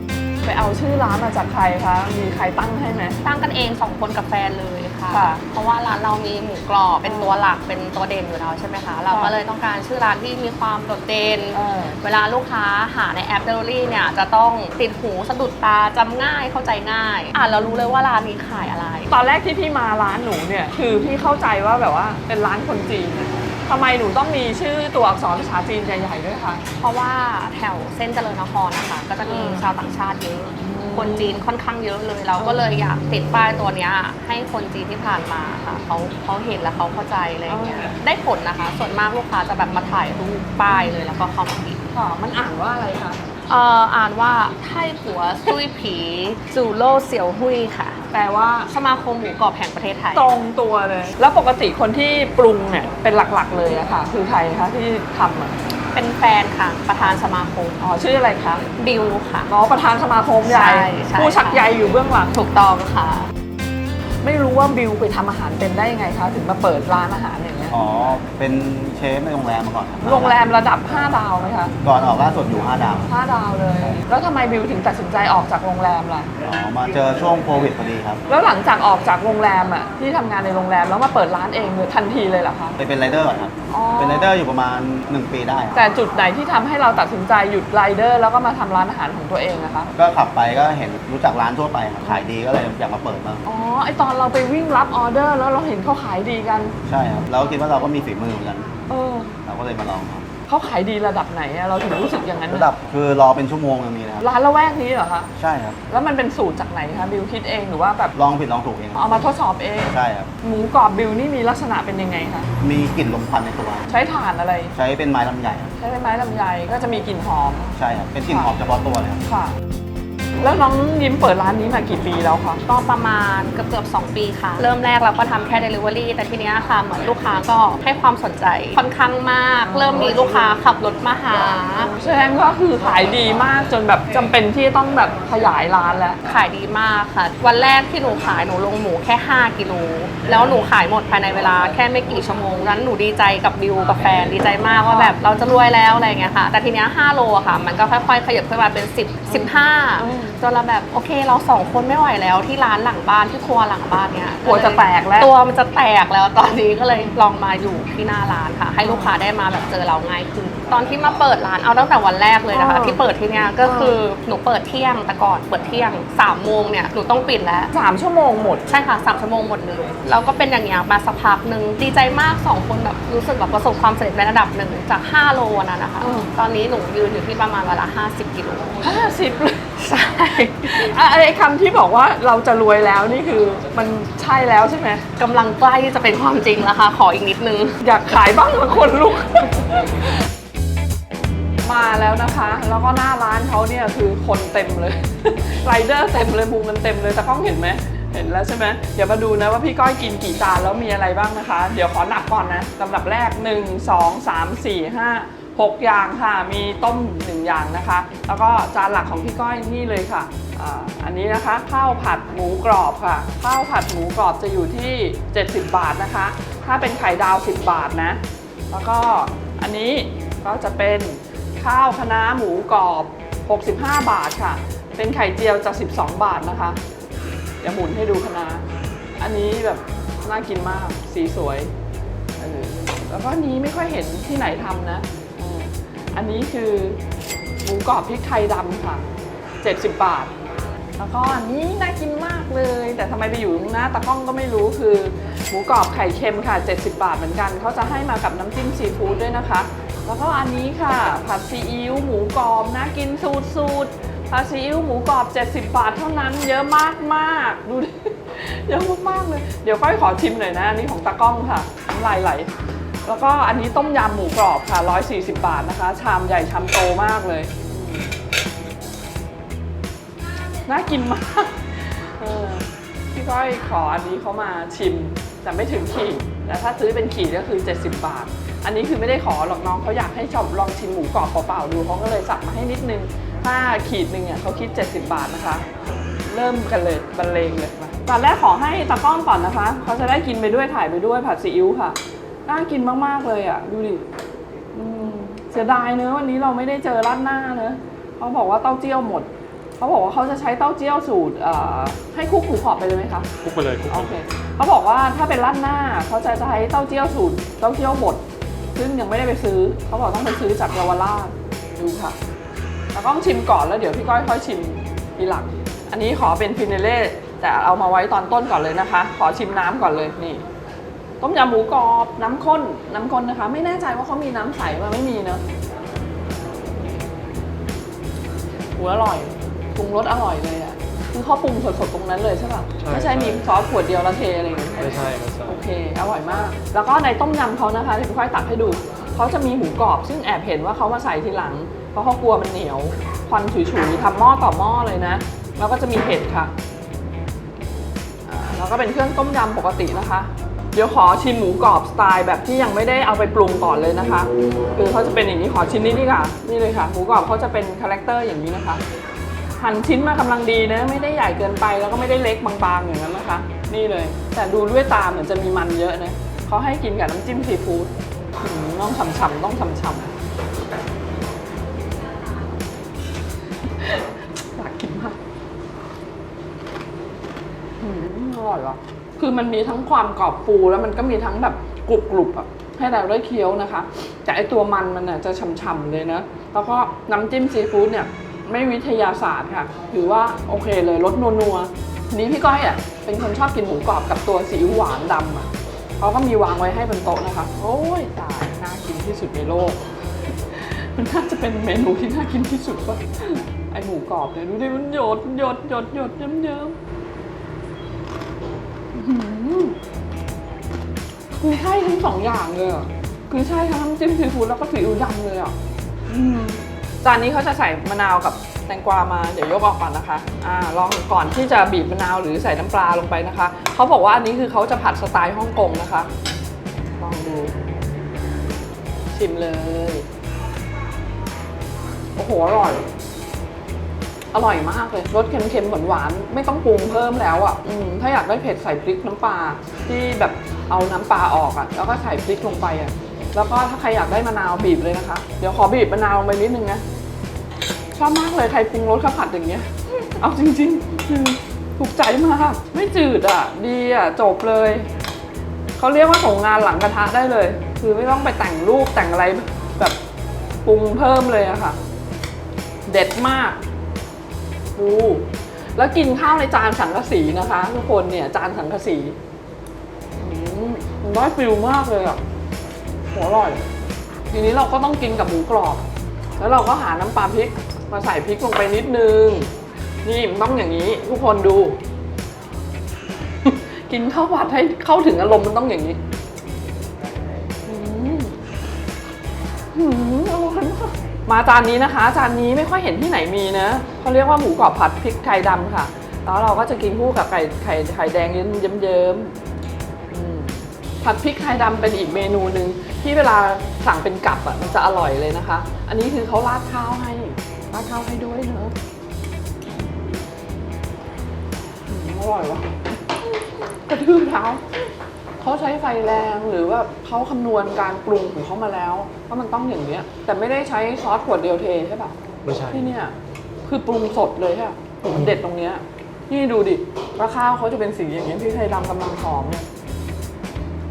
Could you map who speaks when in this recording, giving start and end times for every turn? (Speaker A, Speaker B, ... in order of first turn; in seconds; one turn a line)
Speaker A: 0.4-3.2
Speaker B: 3.2-19.1
Speaker A: 5.1-5.4
Speaker A: 7.0-7.4
Speaker A: 9.1-9.4
Speaker A: 11.5-12.0
Speaker A: 19.1-26.6
Speaker B: 26.8-41.8
Speaker A: 29.3-29.7
Speaker A: 30.6-31.4
Speaker A: 32.4-32.6
Speaker A: 37.5-38.0
Speaker A: 40.7-41.0
Speaker A: 41.9-43.2
Speaker B: 43.5-48.0
Speaker A: 48.1-48.7
Speaker B: 48.7-50.2
Speaker A: 50.1-55.5
Speaker B: 55.9-57.8
Speaker A: 57.8-58.6
Speaker B: 58.8-59.5
Speaker A: 59.5-62.3
Speaker B: 60.4-61.7
Speaker B: 62.3-63.3
Speaker A: 64.2-67.8
Speaker C: 67.7-70.5
Speaker A: 70.0-71.8
Speaker C: 71.8-73.1
Speaker A: 73.1-76.3
Speaker C: 76.4-78.2
Speaker A: 78.3-82.8
Speaker C: 82.8-85.8
Speaker A: 83.7-84.3
Speaker A: 85.8-89.9
Speaker C: 90.0-93.5
Speaker A: 93.5-96.7
Speaker C: 96.9-98.8
Speaker A: 98.9-99.3
Speaker C: 99.5-100.3
Speaker A: 100.5-102.7
Speaker C: 102.5-104.3
Speaker A: 104.2-105.3
Speaker C: 105.4-105.8
Speaker A: 105.9-108.1
Speaker C: 108.2-109.2
Speaker A: 109.0-112.5
Speaker C: 109.9-110.3
Speaker C: 112.6-113.9
Speaker A: 113.9-114.7
Speaker C: 114.7-115.7
Speaker A: 115.8-117.8
Speaker C: 117.8-119.2
Speaker A: 119.3-119.5
Speaker A: 120.4-122.6
Speaker B: 122.7-131.9
Speaker A: 129.7-130.6
Speaker A: 131.9-136.2
Speaker B: 136.2-167.7
Speaker A: 144.9-145.2
Speaker A: 149.3-150.4
Speaker A: 154.4-155.3
Speaker A: 156.9-157.2
Speaker A: 158.8-159.2
Speaker A: 162.5-163.0
Speaker A: 163.6-164.0
Speaker A: 167.7-168.6
Speaker B: 168.7-178.8
Speaker A: 176.0-176.3
Speaker A: 178.8-179.7
Speaker B: 179.8-180.9
Speaker A: 180.6-185.0
Speaker B: 185.2-187.8
Speaker A: 187.8-190.0
Speaker A: 191.7-218.2
Speaker A: 218.7-226.8
Speaker A: 227.6-228.7
Speaker A: 229.2-231.7
Speaker A: 232.4-237.0
Speaker A: 237.6-239.1
Speaker A: 239.6-240.3
Speaker A: 241.0-262.5
Speaker A: 263.1-268.1
Speaker A: 270.7-285.6
Speaker A: 286.3-294.1
Speaker A: 294.7-303.3
Speaker D: 303.4-304.2
Speaker A: 303.9-308.2
Speaker A: 308.8-312.1
Speaker A: 312.9-320.4
Speaker A: 321.2-325.4
Speaker A: 328.8-334.9
Speaker D: 332.8-333.4
Speaker D: 334.8-335.6
Speaker A: 335.5-346.5
Speaker A: 348.3-358.8
Speaker A: 359.6-370.1
Speaker A: 373.7-375.2
Speaker A: 377.8-395.5
Speaker A: 396.0-399.8
Speaker A: 400.5-406.8
Speaker A: 408.9-409.8
Speaker A: 411.4-415.5
Speaker A: 416.1-426.1
Speaker A: 427.0-427.5
Speaker A: 429.1-430.1
Speaker A: 432.2-432.9
Speaker A: 434.3-446.8
Speaker A: 448.0-454.9
Speaker A: 455.8-460.0
Speaker A: 460.6-461.8
Speaker A: 462.9-463.6
Speaker A: 464.8-469.1
Speaker A: 470.2-472.2
Speaker A: 473.1-473.6
Speaker A: 474.3-475.8
Speaker A: 476.4-479.5
Speaker A: 480.0-481.8
Speaker A: 483.4-486.0
Speaker A: 487.7-488.4
Speaker A: 489.7-499.3
Speaker A: 500.1-508.7
Speaker A: 511.9-513.3
Speaker A: 513.9-514.6
Speaker A: 515.4-522.1
Speaker D: 522.5-522.9
Speaker A: 522.7-523.1
Speaker A: 523.7-529.6